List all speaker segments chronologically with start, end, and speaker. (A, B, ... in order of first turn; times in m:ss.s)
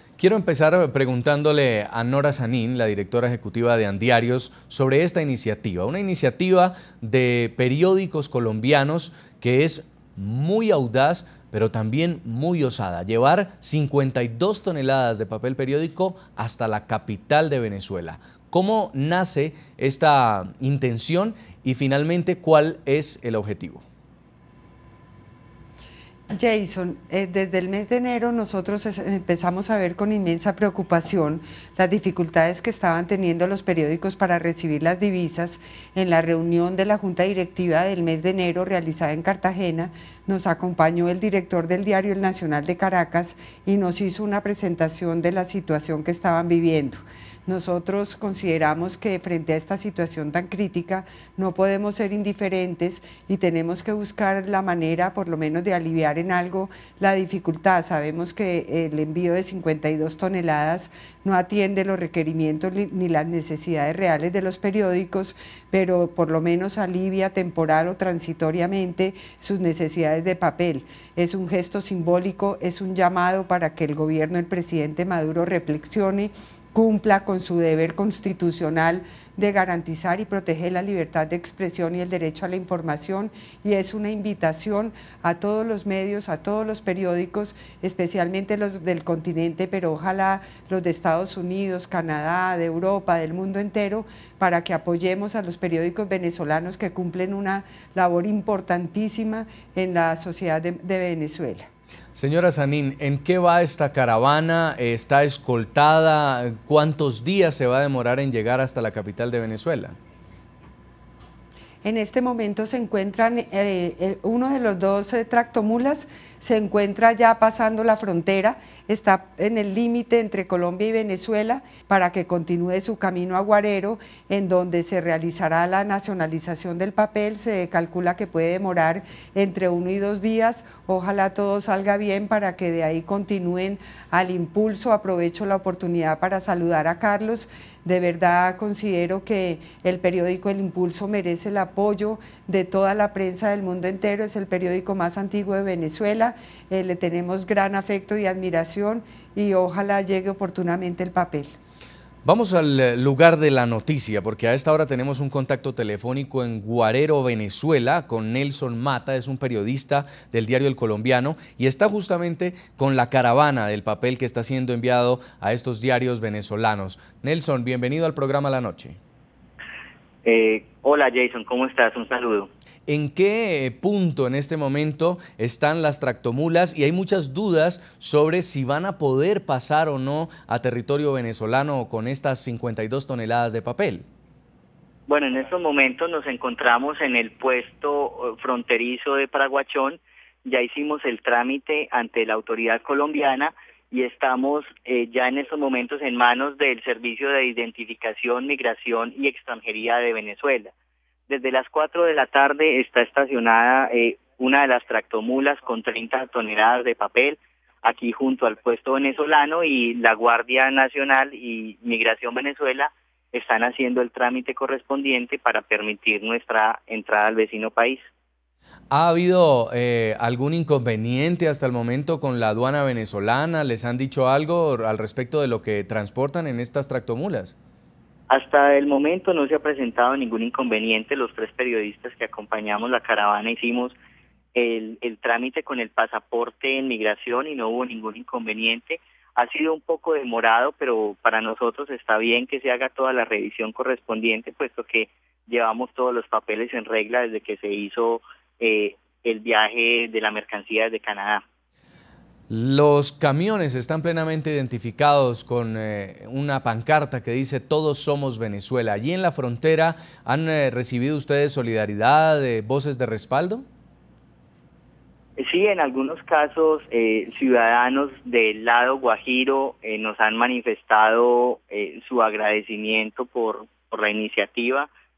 0:00.2-0:23.8 A
0:26.3-1:41.7 B
1:42.1-1:50.0 A
1:51.8-2:31.5 B
2:32.2-2:49.0 A
2:50.2-2:52.5 C
2:52.9-3:04.1 A
3:05.1-3:20.7 C
3:21.3-3:38.0 C
3:38.9-3:47.5 A
3:48.3-3:53.9 C
3:54.6-4:11.4 C
4:12.5-4:23.6 A
4:25.4-4:34.9 C